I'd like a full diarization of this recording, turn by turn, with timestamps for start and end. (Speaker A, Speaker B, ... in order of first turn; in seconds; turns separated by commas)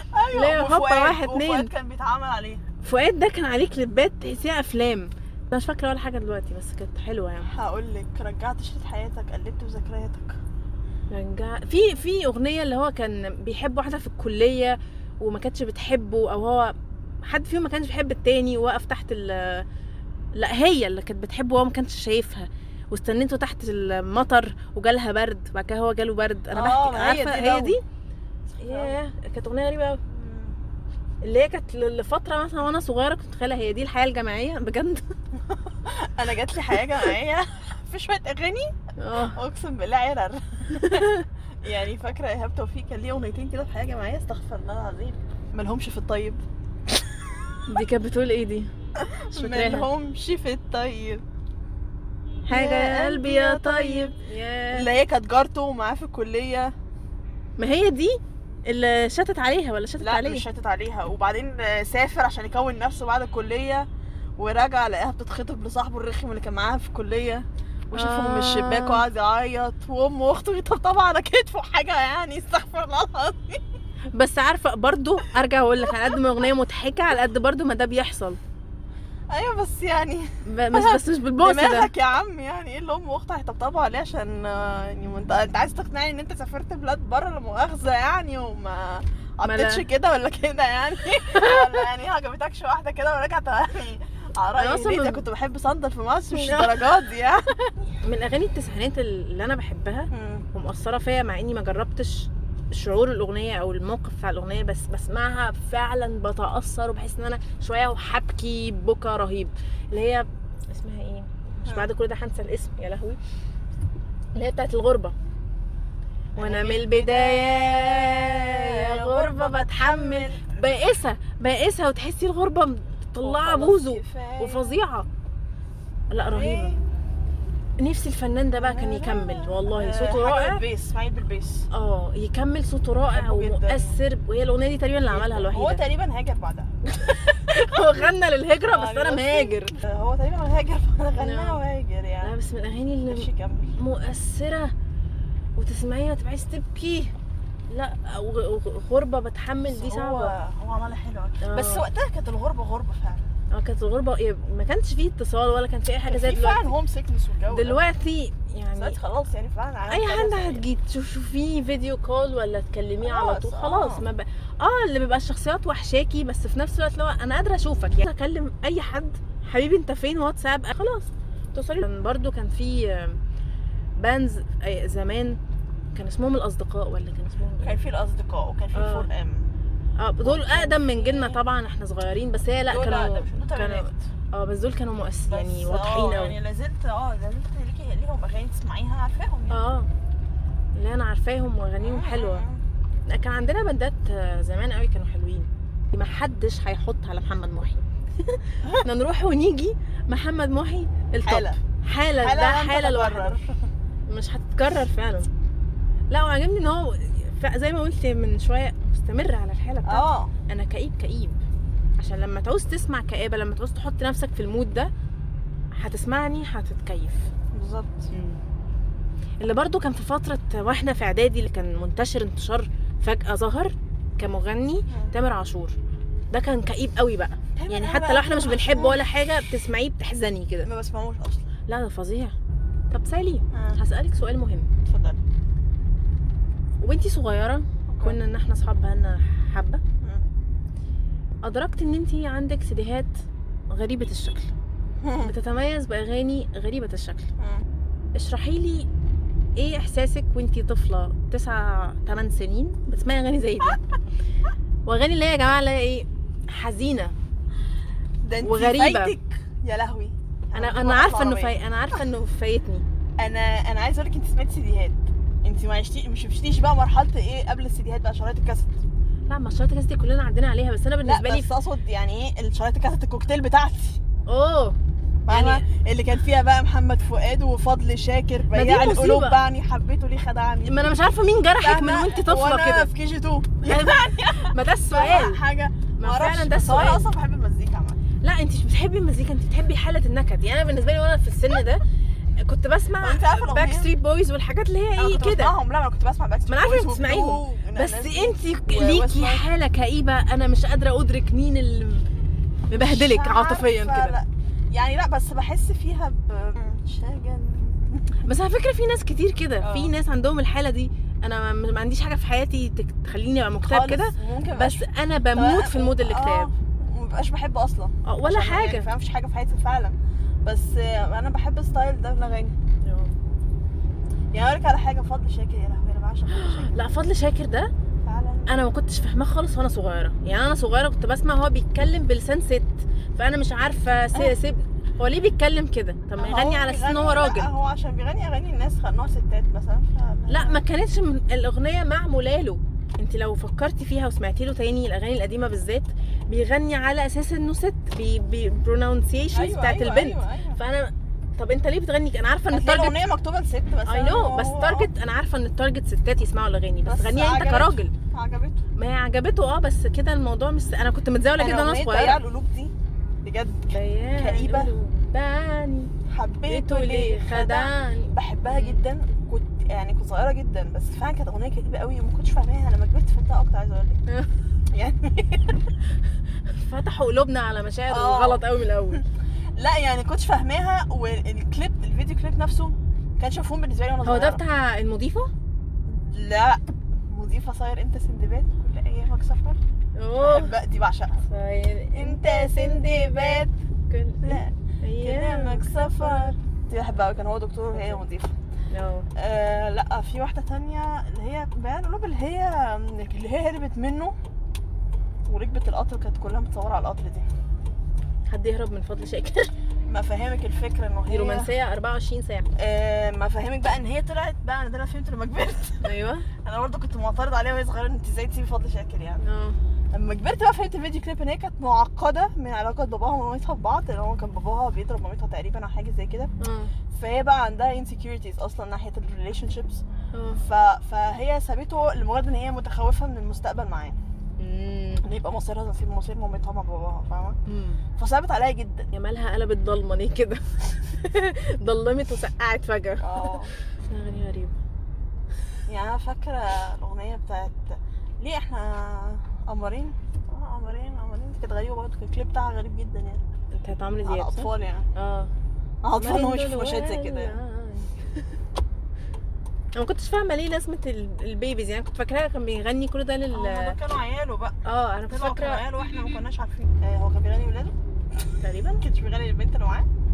Speaker A: 0.1-2.6, Speaker B: 0.3-1.7, Speaker B: 2.8-7.5, Speaker A: 7.5-10.3, Speaker B: 11.1-19.6, Speaker B: 20.3-27.8, Speaker A: 26.5-27.8, Speaker A: 28.6-28.9, Speaker B: 28.6-30.0, Speaker A: 30.1-30.6, Speaker B: 31.2-35.0, Speaker A: 35.4-41.1, Speaker B: 39.0-39.4, Speaker B: 40.7-41.2, Speaker A: 41.6-47.1, Speaker B: 47.7-48.7, Speaker A: 49.0-51.2, Speaker B: 49.3-49.9, Speaker B: 52.5-54.9, Speaker A: 52.5-54.1, Speaker A: 54.7-56.7, Speaker B: 57.6-60.4, Speaker A: 60.0-63.9, Speaker A: 64.4-73.6, Speaker B: 67.9-69.0, Speaker B: 74.1-78.4, Speaker A: 79.3-97.5, Speaker B: 80.5-81.9, Speaker B: 89.4-89.8, Speaker B: 91.3-91.7, Speaker B: 94.6-95.2, Speaker B: 96.3-96.8, Speaker B: 98.0-113.2, Speaker A: 100.1-100.5, Speaker B: 114.3-115.1, Speaker A: 116.4-120.4, Speaker B: 116.4-125.1, Speaker A: 123.2-124.8, Speaker B: 126.1-126.8, Speaker A: 126.2-126.8, Speaker B: 127.8-130.6, Speaker A: 128.6-131.7, Speaker B: 131.7-135.8, Speaker A: 133.1-134.0, Speaker A: 135.1-137.9, Speaker B: 136.9-139.7, Speaker A: 138.7-142.3, Speaker B: 141.2-141.6, Speaker B: 142.2-144.7, Speaker A: 143.1-143.7, Speaker B: 145.6-147.1, Speaker B: 147.7-150.3, Speaker A: 149.6-153.3, Speaker B: 151.4-151.8, Speaker B: 153.5-156.7, Speaker A: 156.1-157.8, Speaker B: 157.5-159.0, Speaker A: 158.7-160.6, Speaker B: 159.9-173.2, Speaker A: 163.0-164.0, Speaker B: 174.0-175.4, Speaker B: 175.9-177.8, Speaker A: 177.6-179.5, Speaker B: 178.7-179.1, Speaker B: 180.0-186.4, Speaker A: 180.2-181.4, Speaker A: 182.7-184.1, Speaker A: 185.3-189.6, Speaker B: 189.5-189.9, Speaker B: 190.8-192.4, Speaker A: 191.8-192.6, Speaker B: 193.1-203.4, Speaker A: 201.2-201.6, Speaker A: 202.2-203.5, Speaker B: 204.1-205.3, Speaker B: 206.1-211.4, Speaker A: 209.8-210.3, Speaker B: 212.0-214.9, Speaker B: 215.7-217.3, Speaker A: 217.5-218.1, Speaker B: 218.1-218.4, Speaker B: 219.4-225.8, Speaker B: 226.3-230.7, Speaker A: 227.5-229.0, Speaker A: 230.6-231.5, Speaker B: 231.7-232.3, Speaker B: 232.9-234.7, Speaker A: 233.5-233.8, Speaker A: 234.8-235.2, Speaker B: 236.8-239.8, Speaker A: 237.9-238.2, Speaker B: 241.4-243.1, Speaker B: 243.7-244.5, Speaker A: 245.0-245.3, Speaker B: 245.2-247.3, Speaker A: 247.4-247.6, Speaker B: 248.1-248.9, Speaker B: 249.6-253.8, Speaker B: 254.8-257.1, Speaker A: 258.2-261.6, Speaker B: 258.4-259.1, Speaker B: 260.5-262.8, Speaker A: 263.2-268.8, Speaker B: 269.3-271.5, Speaker A: 271.0-274.0, Speaker B: 274.3-274.8, Speaker A: 275.3-280.7, Speaker B: 275.3-275.6, Speaker B: 278.5-279.4, Speaker B: 280.6-282.9, Speaker A: 281.6-288.0, Speaker B: 283.6-285.4, Speaker B: 286.0-287.1, Speaker B: 288.2-291.8, Speaker B: 292.4-295.5, Speaker A: 293.0-293.9, Speaker A: 295.0-299.4, Speaker B: 296.5-302.1, Speaker B: 302.7-304.1, Speaker A: 302.7-308.2, Speaker B: 308.2-316.5, Speaker A: 309.6-309.9, Speaker A: 313.6-314.8, Speaker A: 315.3-322.6, Speaker B: 318.0-318.9, Speaker B: 322.8-323.1, Speaker A: 324.3-326.8, Speaker B: 326.3-327.7, Speaker A: 328.0-328.5, Speaker B: 328.5-337.5, Speaker A: 336.2-340.6, Speaker B: 340.3-352.9, Speaker A: 349.3-350.6, Speaker A: 352.5-354.9, Speaker B: 353.9-357.9, Speaker A: 356.9-358.6, Speaker B: 358.8-362.2, Speaker A: 361.4-362.7, Speaker A: 363.2-364.7, Speaker B: 363.7-365.9, Speaker A: 366.1-374.0, Speaker B: 366.5-368.8, Speaker A: 374.7-375.6, Speaker B: 376.5-379.0, Speaker A: 377.9-378.4, Speaker A: 379.6-384.4, Speaker B: 384.0-385.3, Speaker A: 385.9-389.6, Speaker B: 390.0-390.5, Speaker A: 390.2-391.2, Speaker B: 391.2-396.3, Speaker A: 391.9-393.5, Speaker A: 394.2-398.3, Speaker B: 397.7-398.0, Speaker B: 398.7-399.1, Speaker A: 399.2-404.1, Speaker A: 405.2-407.2, Speaker B: 408.3-409.5, Speaker A: 409.9-411.5, Speaker B: 411.1-412.5, Speaker A: 412.6-419.2, Speaker B: 415.8-416.2, Speaker B: 419.2-419.6, Speaker A: 419.9-426.3, Speaker B: 426.4-426.7, Speaker A: 426.9-429.8, Speaker B: 430.1-430.4, Speaker A: 430.4-434.0, Speaker B: 434.4-435.0, Speaker A: 435.0-437.4, Speaker B: 437.5-437.8, Speaker A: 438.0-438.9, Speaker B: 438.9-443.3, Speaker A: 443.0-443.5, Speaker B: 443.9-444.6, Speaker A: 445.7-453.2, Speaker B: 453.5-455.3, Speaker A: 454.0-454.9, Speaker A: 455.8-457.4, Speaker B: 455.9-457.9, Speaker B: 459.8-463.8, Speaker A: 463.3-464.6, Speaker B: 464.6-465.6, Speaker A: 465.1-467.7, Speaker B: 468.4-468.8, Speaker A: 468.8-469.9